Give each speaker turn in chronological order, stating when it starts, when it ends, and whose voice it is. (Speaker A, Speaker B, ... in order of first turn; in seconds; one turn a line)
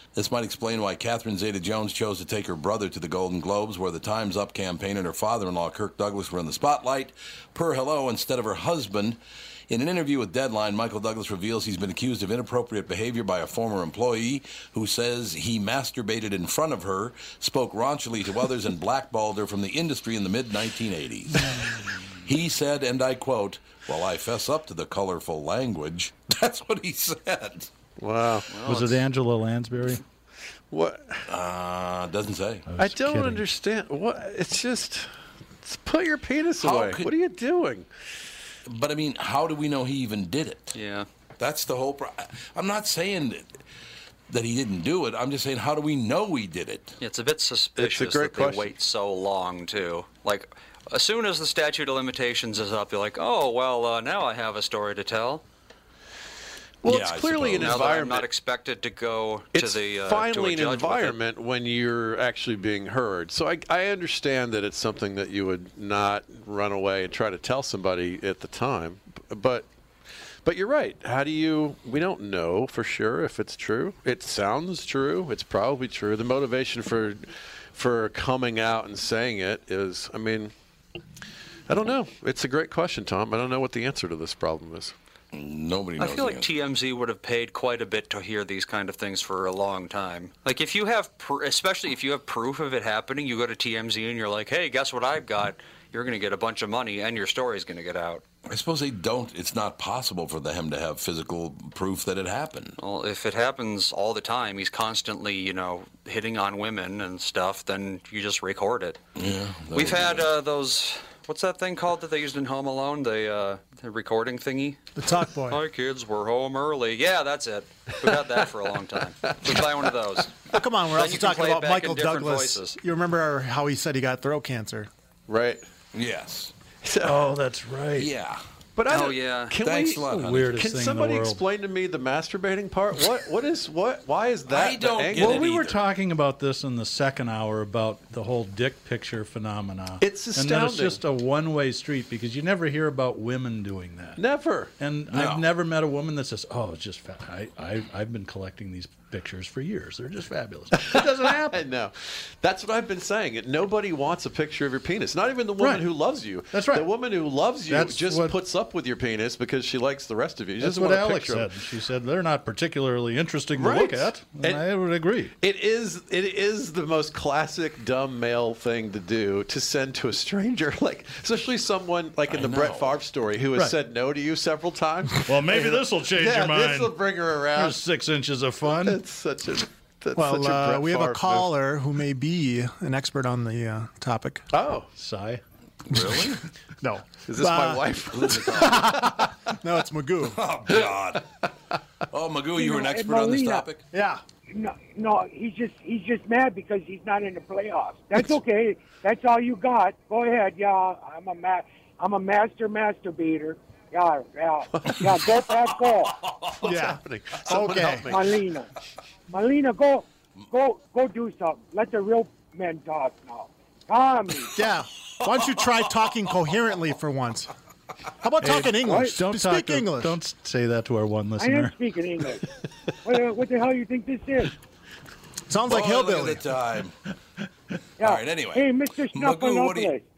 Speaker A: 0.1-21.7
Speaker A: 22.2-27.7
Speaker B: 28.0-28.5
Speaker C: 28.5-28.9
Speaker D: 28.6-30.0
Speaker B: 30.7-31.3
Speaker A: 31.3-32.7
Speaker D: 32.7-33.4
Speaker B: 32.8-35.1
Speaker B: 35.6-37.9
Speaker A: 36.6-37.1
Speaker A: 38.6-40.8
Speaker C: 40.7-41.0
Speaker A: 41.4-43.5
Speaker A: 44.3-47.0
Speaker C: 47.0-55.4
Speaker B: 47.8-48.7
Speaker B: 56.8-58.3
Speaker A: 56.9-57.8
Speaker C: 57.6-61.2
Speaker B: 59.5-69.7
Speaker B: 70.4-80.5
Speaker B: 81.7-84.9
Speaker A: 85.3-86.5
Speaker C: 86.0-98.2
Speaker A: 98.4-102.8
Speaker C: 102.8-109.0
Speaker A: 109.2-110.3
Speaker C: 109.7-122.8
Speaker E: 114.9-115.6
Speaker B: 119.3-119.9
Speaker E: 120.5-124.9
Speaker B: 125.3-125.7
Speaker A: 125.9-126.5
Speaker B: 126.8-127.3
Speaker D: 127.0-128.1
Speaker A: 128.0-128.4
Speaker B: 128.8-135.6
Speaker C: 128.9-129.5
Speaker A: 129.6-130.6
Speaker D: 130.1-131.4
Speaker A: 134.5-135.8
Speaker D: 135.1-144.2
Speaker B: 140.0-141.0
Speaker B: 144.2-144.7
Speaker D: 144.8-151.6
Speaker A: 145.1-145.4
Speaker B: 150.8-161.5
Speaker D: 155.6-155.9
Speaker D: 156.5-156.9
Speaker D: 157.7-158.4
Speaker D: 160.6-165.3
Speaker B: 163.6-164.6
Speaker B: 165.4-177.8
Speaker A: 172.3-173.0
Speaker D: 175.2-179.0
Speaker B: 178.8-181.5
Speaker E: 180.2-184.4
Speaker B: 184.5-184.9
Speaker D: 184.9-185.4
Speaker A: 185.9-186.4
Speaker E: 186.0-190.4
Speaker B: 187.2-189.2
Speaker A: 188.1-189.0
Speaker A: 190.2-191.2
Speaker A: 192.1-193.8
Speaker F: 192.6-193.7
Speaker E: 193.9-194.2
Speaker F: 194.5-206.2
Speaker B: 204.8-205.1
Speaker A: 206.0-206.6
Speaker B: 206.6-208.4
Speaker E: 206.6-208.2
Speaker F: 208.1-208.7
Speaker F: 209.3-214.5
Speaker E: 214.5-217.5
Speaker E: 218.2-220.2
Speaker D: 218.4-221.7
Speaker F: 218.8-219.2
Speaker F: 221.4-222.4
Speaker F: 223.0-224.5
Speaker E: 225.5-226.4
Speaker A: 225.7-227.0
Speaker F: 228.0-230.0
Speaker A: 228.0-229.9